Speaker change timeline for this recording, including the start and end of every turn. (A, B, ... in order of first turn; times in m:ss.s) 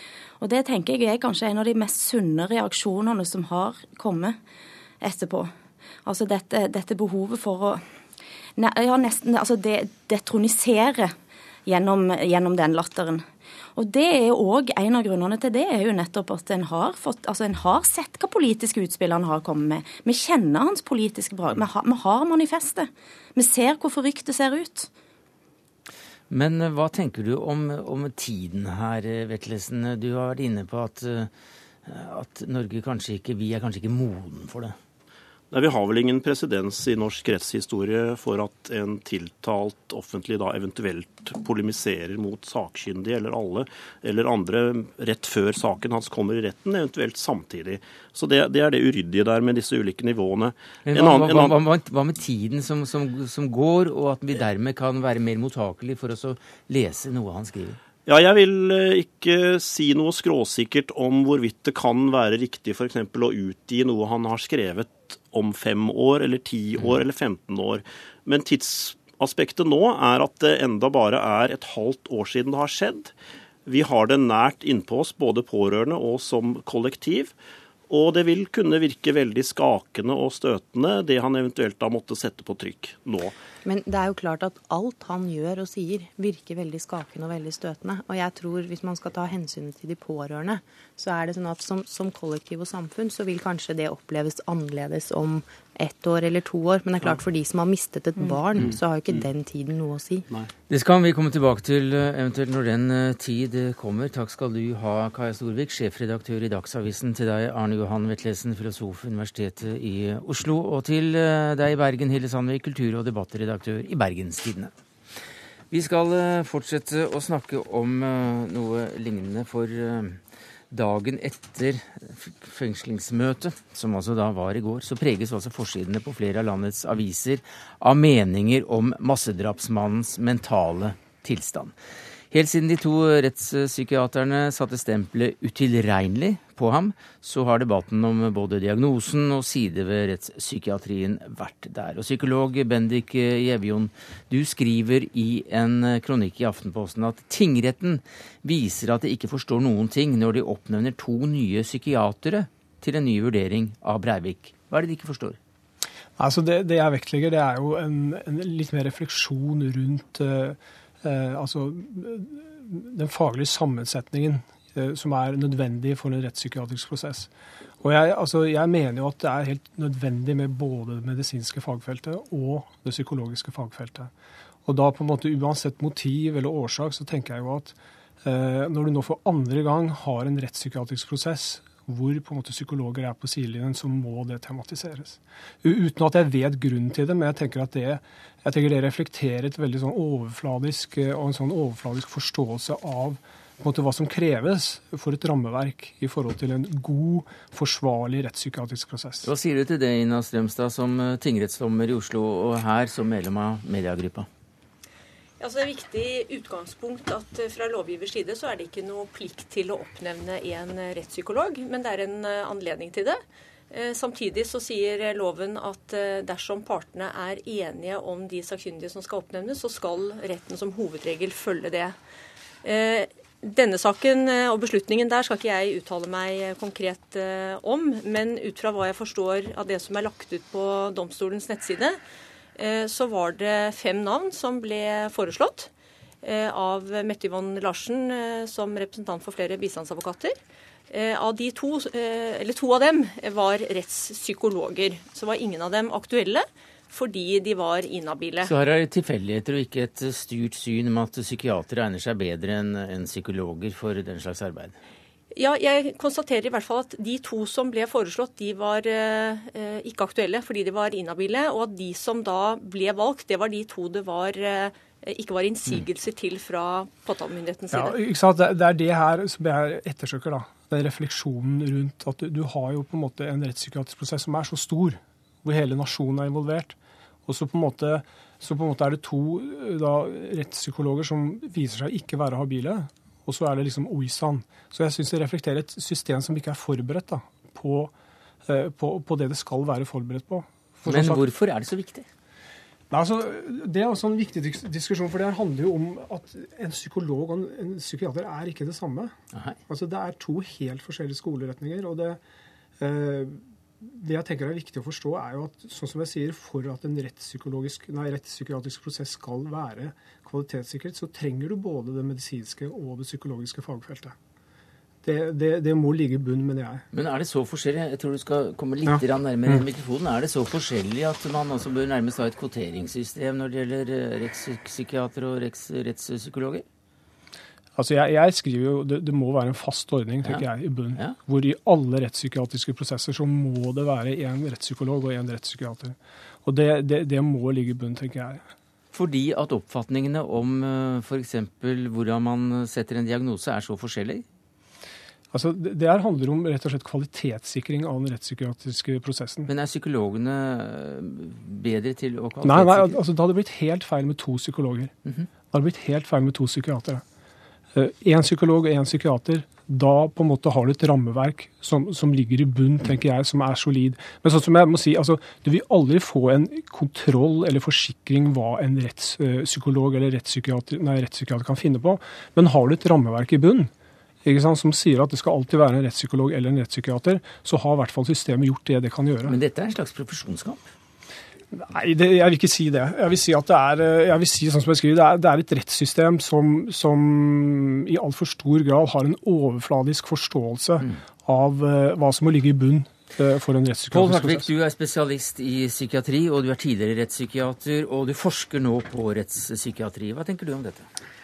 0:00.4-0:04.4 A
0:05.0-0:05.5 A
0:06.0-0:07.8 A
0:08.6-0:11.2 A
0:11.7-0:24.9 A
0:26.3-0:31.3 B
0:31.9-0:34.8 B
0:35.5-0:51.6 C
0:50.8-0:57.8 B
0:58.1-1:13.1 C
1:13.7-1:17.3 C
1:17.9-1:23.3 C
1:23.6-1:40.3 D
1:40.7-1:54.7 B
1:55.7-2:00.2 B
2:00.7-2:11.7 B
2:12.3-2:35.4 B
2:36.2-2:47.3 E
2:47.8-2:54.1 E
2:54.6-3:19.3 E
3:19.2-3:24.3 B
3:25.4-3:33.2 F
3:33.7-3:42.0 F
3:42.6-3:52.0 F
3:52.6-3:55.7 F
3:56.2-4:00.4 F
4:00.9-4:08.5 F
4:08.4-4:14.8 B
4:15.4-4:28.0 F
4:27.7-4:47.9 E
4:48.5-4:51.3 E
4:50.9-4:52.1 B
4:52.9-4:59.1 E
4:59.7-5:02.2 E
5:02.8-5:14.2 E
5:15.0-5:16.8 E
5:16.9-5:26.6 B
5:18.8-5:19.6 E
5:27.8-5:38.4 E
5:30.2-5:31.2 B
5:38.9-5:44.2 B
5:45.3-5:49.5 E
5:49.5-5:53.0 B
5:52.4-5:54.9 E
5:55.5-5:57.0 E
5:57.7-6:13.7 E
6:14.2-6:19.4 E
6:19.2-6:20.7 B
6:21.5-6:34.5 E
6:33.9-6:40.9 B